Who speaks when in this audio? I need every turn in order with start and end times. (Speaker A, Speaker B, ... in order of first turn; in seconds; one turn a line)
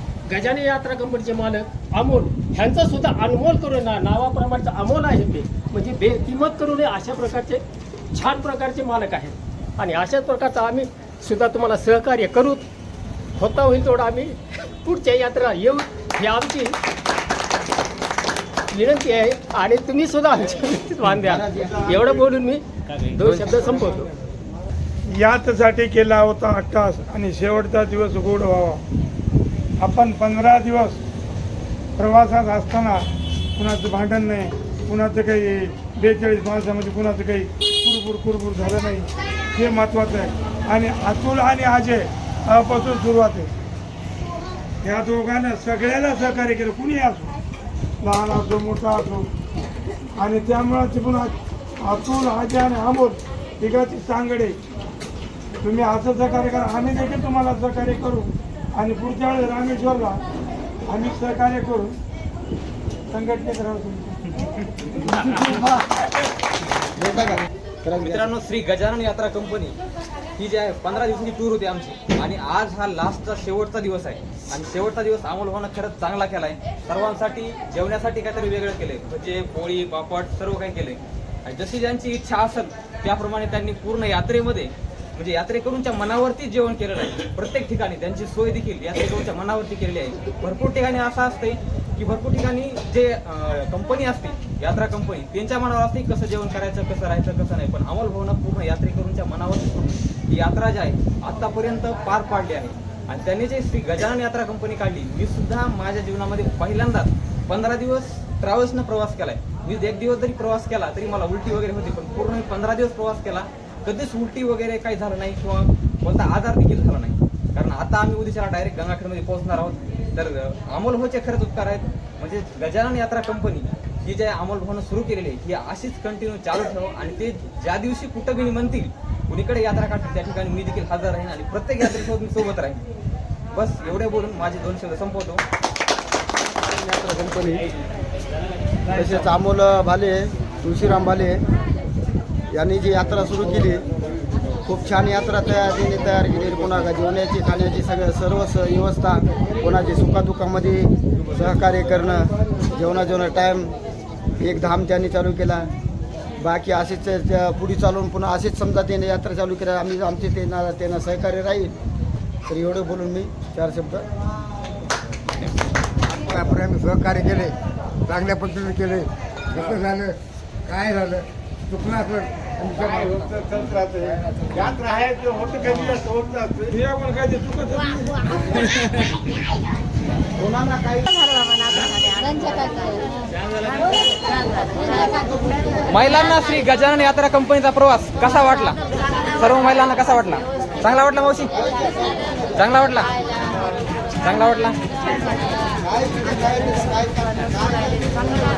Speaker A: 0.2-12.7
Speaker A: 13.4-16.8
Speaker A: 18.7-24.1
Speaker B: 21.2-22.1
Speaker C: 25.1-28.8
Speaker C: 29.8-31.0
Speaker C: 32.0-43.5
Speaker C: 44.8-47.3
Speaker C: 48.0-49.3
Speaker C: 50.2-54.6
Speaker C: 55.6-60.2
Speaker C: 60.9-62.0
Speaker C: 63.1-64.4
Speaker B: 67.0-68.3
Speaker D: 68.0-69.8
Speaker D: 70.3-132.8
Speaker D: 133.5-135.4
Speaker B: 136.8-137.7
Speaker B: 138.9-141.4
Speaker B: 142.5-143.8
Speaker B: 144.7-153.8
Speaker B: 154.4-155.7
Speaker B: 156.4-161.8
Speaker B: 162.5-164.1
Speaker E: 166.5-167.6
Speaker E: 168.1-169.1
Speaker E: 169.6-170.2
Speaker E: 170.7-172.3
Speaker B: 172.8-173.9
Speaker C: 176.6-179.0
Speaker B: 180.4-181.1
Speaker D: 185.9-188.8
Speaker D: 189.3-191.7
Speaker D: 192.5-193.1
Speaker D: 194.2-194.8
Speaker B: 195.9-198.2